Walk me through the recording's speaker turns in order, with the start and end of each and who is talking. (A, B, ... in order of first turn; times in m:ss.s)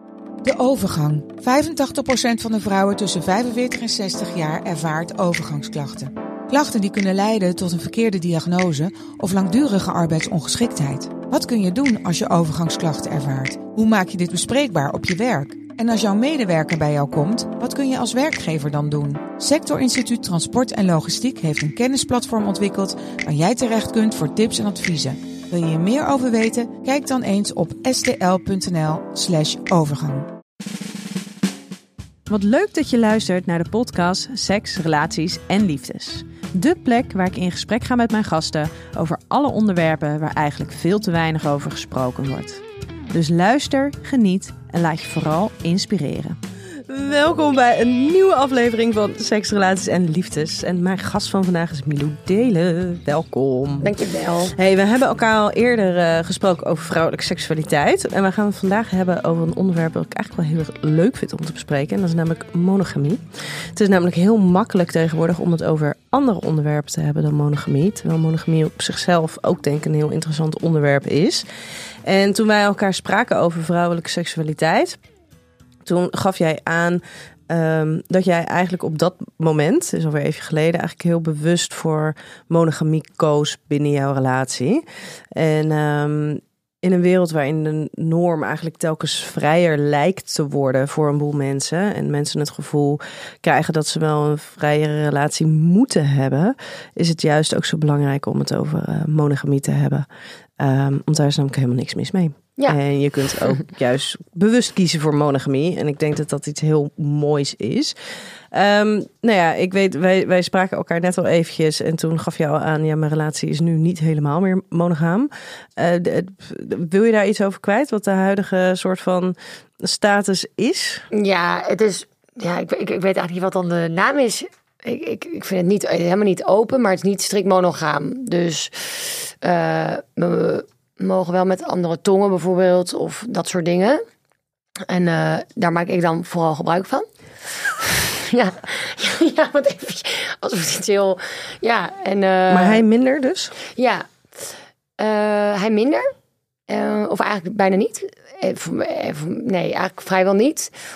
0:00.4-0:30.3 A
0:32.3-0:53.9 B
0:53.8-0:54.5 C
0:54.5-1:11.5 B
1:12.0-1:15.0 B
1:15.8-1:40.1 B
1:40.6-1:48.0 B
1:48.5-2:01.0 B
2:01.1-2:14.0 C
2:14.9-2:22.8 C
2:22.5-2:23.5 B
2:23.7-2:26.1 C
2:26.7-2:30.7 C